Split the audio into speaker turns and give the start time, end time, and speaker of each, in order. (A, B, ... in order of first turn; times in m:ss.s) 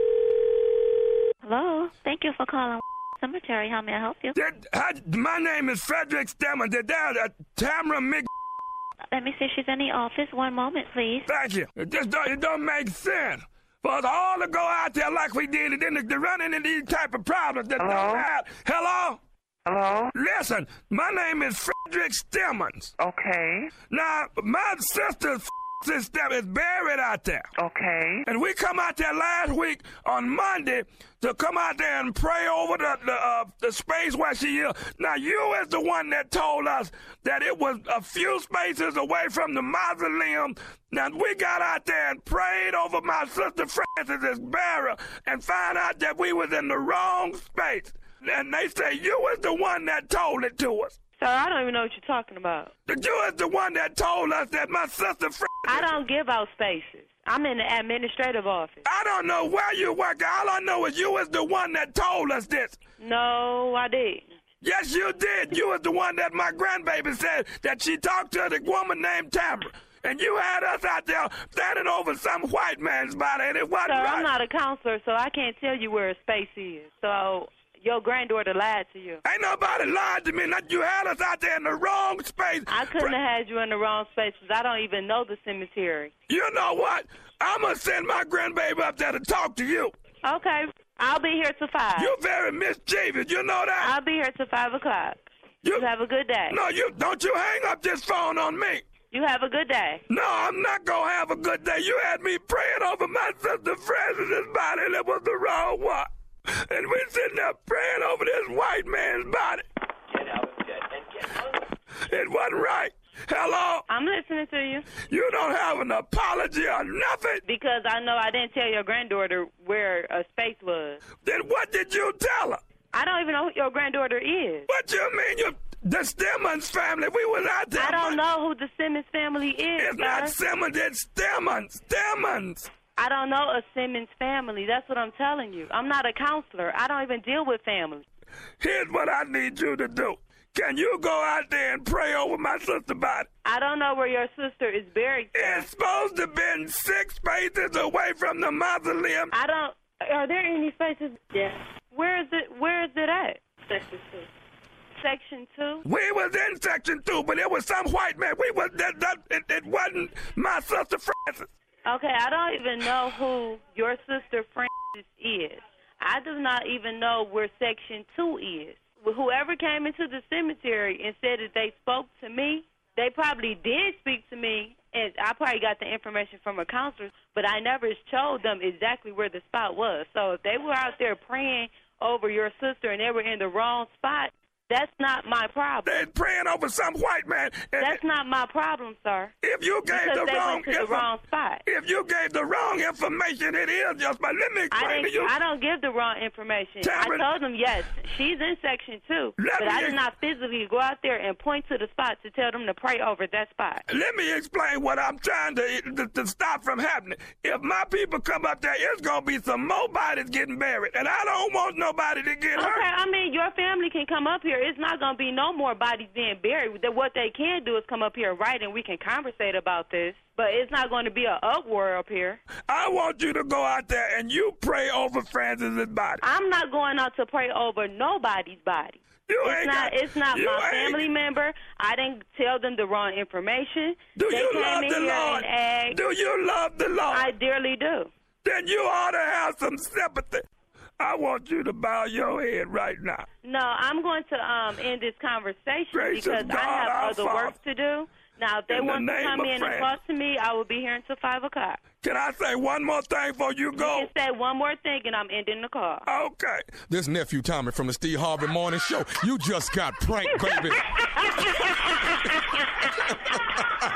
0:01.4-0:04.3 A
0:04.3-0:08.3 B
0:09.1-0:11.3 A
0:11.2-0:19.2 B
0:17.8-0:18.2 C
0:19.6-0:20.1 C
0:20.1-0:22.9 B
0:23.0-0:23.7 C
0:23.9-0:27.5 B
0:27.6-0:28.2 C
0:28.2-0:51.0 B
0:51.2-0:52.7 D
0:52.9-0:55.9 B
0:55.7-0:58.9 D
0:58.8-1:02.8 B
1:03.0-1:04.2 D
1:04.6-1:14.3 B
1:13.8-1:19.2 D
1:19.2-1:23.1 B
1:22.7-1:26.1 D
1:26.3-1:29.9 B
1:30.2-1:32.1 D
1:32.0-1:33.9 B
1:33.8-1:36.6 D
1:36.5-1:38.8 B
1:39.1-1:40.0 D
1:40.1-1:49.6 B
1:52.0-1:53.8 B
1:53.9-1:54.9 D
1:55.0-1:57.4 B
1:57.4-2:01.0 D
2:01.2-2:02.6 B
2:02.9-2:04.7 D
2:04.7-2:08.2 B
2:07.8-2:10.3 D
2:09.8-2:12.7 B
2:13.0-2:18.0 D
2:18.6-2:23.3 B
2:23.4-2:25.7 D
2:25.3-2:29.3 B
2:29.3-2:34.3 D
2:35.0-2:35.8 D
2:35.8-2:41.5 B
2:41.8-3:06.0 D
3:05.8-3:08.0 B
3:07.8-3:09.3 D
3:09.4-3:11.1 B
3:09.9-3:11.6 D
3:11.6-3:15.3 B
3:14.7-3:23.8 D
3:16.8-3:17.3 B
3:19.4-3:20.0 B
3:23.9-3:32.8 B
3:32.6-3:42.4 D
3:42.7-3:46.2 B
3:46.2-3:56.0 D
3:49.3-3:51.0 B
3:54.2-3:57.3 B
3:57.1-3:58.1 D
3:58.4-4:00.4 B
4:01.0-4:03.2 B
4:03.4-4:11.8 D
4:05.9-4:07.5 B
4:08.7-4:09.9 B
4:12.0-4:14.1 B
4:13.8-4:16.1 D
4:16.0-4:16.7 B
4:16.9-4:20.8 E
4:20.3-4:23.4 D